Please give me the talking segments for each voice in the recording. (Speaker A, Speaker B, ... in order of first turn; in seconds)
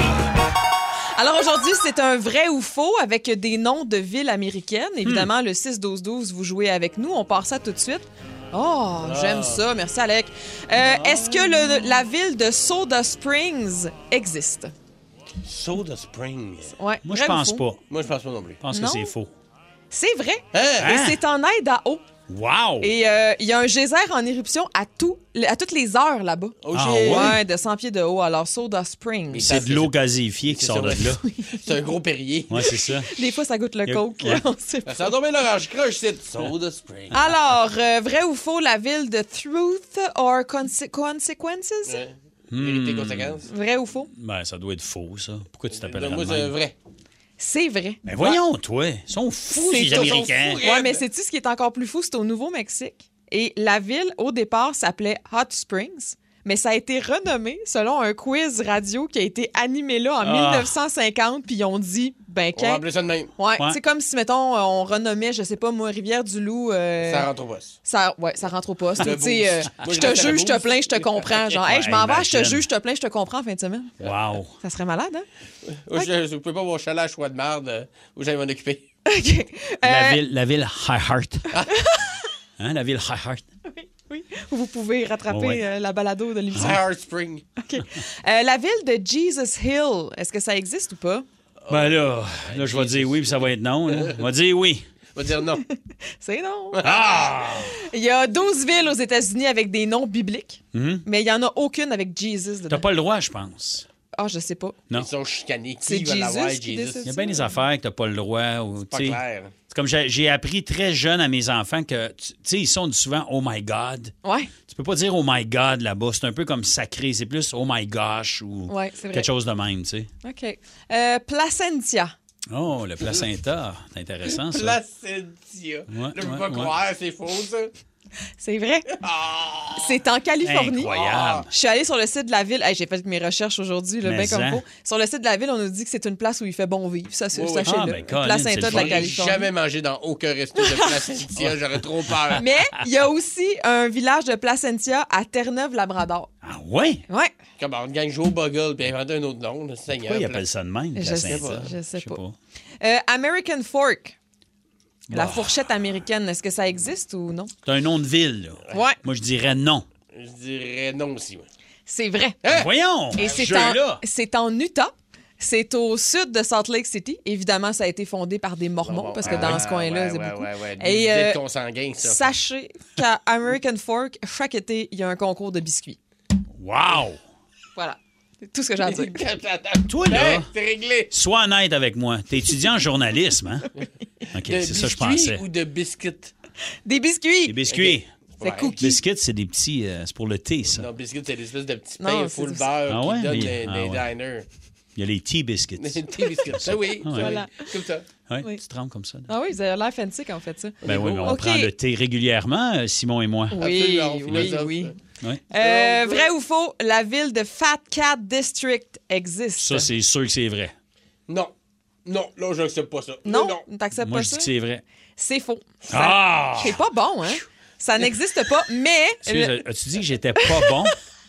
Speaker A: 1.2-14.7, 16.8-17.6, 18.7-19.1, 19.9-22.0, 22.8-29.5, 31.2-31.7, 33.1-35.1, 37.1-42.0, 43.5-44.1, 47.4-48.0, 49.6-62.8, 63.4-67.3, 67.8-73.9, 74.6-75.3, 79.1-80.2, 81.7-82.1, 83.7-86.8, 87.6-91.2, 96.2-96.8, 97.9-102.8, 104.2-104.8, 105.8-107.3, 114.2-114.5, 118.7-119.3, 120.2-122.1, 128.4-128.9, 129.8-130.9, 131.5-139.5, 142.4-146.3, 150.9-152.2, 152.8-154.2, 155.1-157.5, 158.7-159.0, 161.9-162.4, 163.1-171.4, 172.0-176.0, 177.8-179.2, 186.8-187.6, 188.4-188.9, 192.0-192.7, 197.1-197.6, 199.3-201.7, 203.5-204.9, 205.5-209.9, 213.3-214.5, 215.2-219.6
Speaker B: 9.0-9.6, 15.4-16.8, 17.9-18.6, 20.5-20.9, 26.6-27.4, 29.3-29.9, 30.5-32.5, 34.9-37.1, 41.9-43.5, 45.7-46.7, 49.6-51.0, 62.5-63.3, 67.0-67.8, 69.0-71.6, 75.7-78.8, 86.5-87.5, 91.6-94.2, 95.1-95.6, 96.8-97.4, 104.9-107.1, 108.9-109.5, 124.4-127.7, 129.0-129.9, 130.9-131.5, 137.3-137.7, 138.7-142.4, 147.6-150.4, 151.2-151.6, 160.1-161.4, 162.4-162.7, 168.8-172.3, 178.8-181.1, 184.5-186.3, 187.7-188.7, 190.7-194.4, 195.8-198.1, 200.8-201.3, 203.6-204.9, 205.5-206.3, 212.1-213.6
Speaker C: 10.9-11.9, 17.1-17.8, 18.6-19.3, 20.8-21.2, 22.3-22.9, 26.7-27.4, 29.4-31.2, 32.5-33.1, 33.9-34.4, 42.5-43.4, 44.1-46.5, 48.0-50.6, 60.2-60.7, 71.6-72.6, 74.0-74.5, 79.8-81.5, 82.6-83.5, 85.3-85.6, 91.7-94.8, 96.8-97.7, 100.7-101.0, 102.7-103.8, 107.0-114.1, 114.7-120.1, 122.5-124.8, 125.9-126.7, 130.4-131.5, 134.0-134.6, 137.7-139.1, 146.4-147.0, 150.1-152.3, 155.1-155.6, 157.6-159.8, 162.5-164.0, 169.3-169.6, 176.6-177.2, 179.9-180.5, 181.1-183.7, 184.3-185.4, 187.4-188.1, 188.8-190.9, 192.9-194.1, 194.9-197.3, 198.3-199.3, 200.8-203.6, 209.6-210.7, 214.0-214.8, 215.9-216.8, 219.2-220.9